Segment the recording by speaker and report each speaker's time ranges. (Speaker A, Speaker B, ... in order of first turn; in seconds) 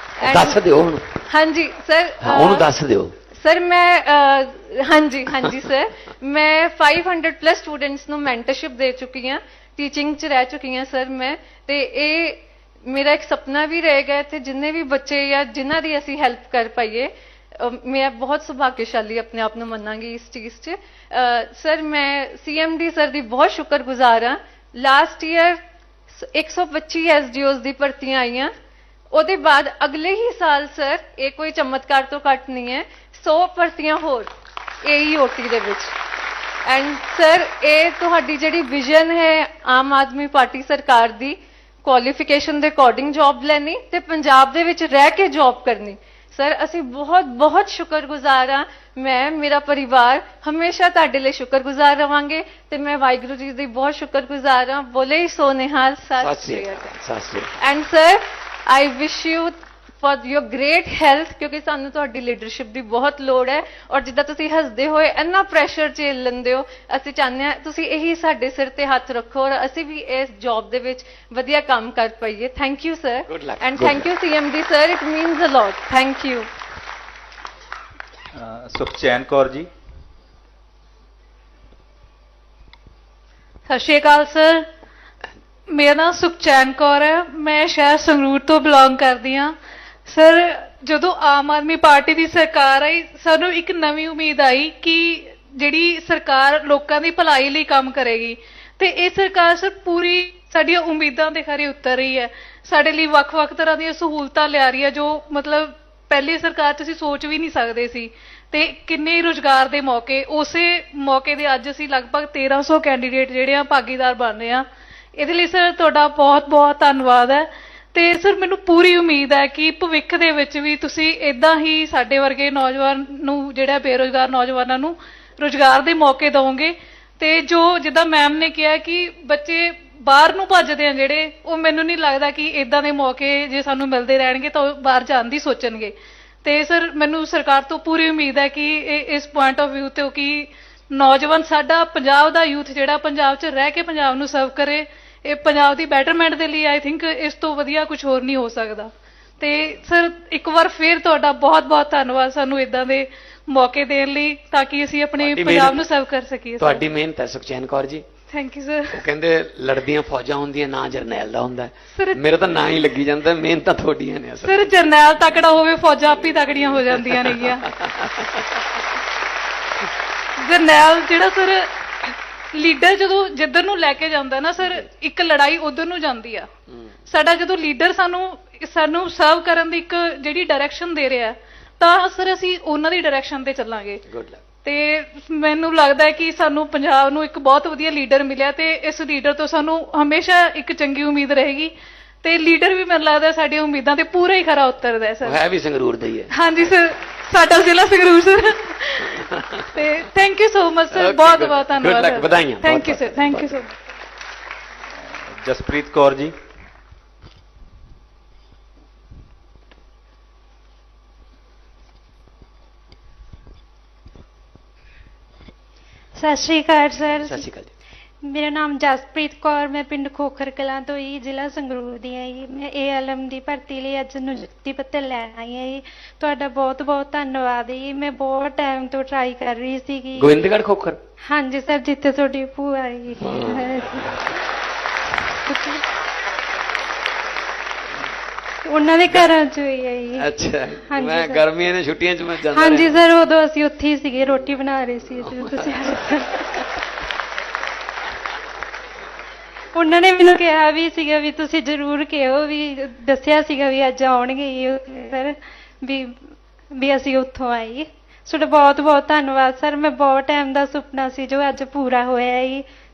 Speaker A: 0.2-0.6, 1.2-2.7, 3.3-25.6, 26.1-28.5, 29.1-34.3, 34.8-36.0, 36.6-56.9, 57.6-76.5
Speaker B: 0.2-1.2, 2.2-3.1, 56.2-57.5, 73.3-74.0, 155.2-155.8, 156.6-158.1, 158.9-164.8, 166.3-168.2, 184.1-184.4, 195.2-196.3, 200.9-203.7, 217.0-217.7, 230.1-231.0, 233.2-233.8, 239.1-239.3, 240.1-243.0, 245.4-245.9
Speaker C: 78.3-79.7, 205.3-206.3
Speaker D: 83.7-84.7, 85.7-89.5, 90.1-135.9, 136.4-156.8, 158.3-159.0, 161.9-162.3, 164.4-167.8, 170.4-176.5, 177.1-184.0, 184.6-195.4, 196.3-199.2, 199.7-203.7
Speaker E: 216.2-217.5, 218.2-230.4, 231.3-234.1, 235.4-235.8, 238.6-240.3, 240.8-241.4, 242.5-246.4, 249.8-256.2, 256.8-262.6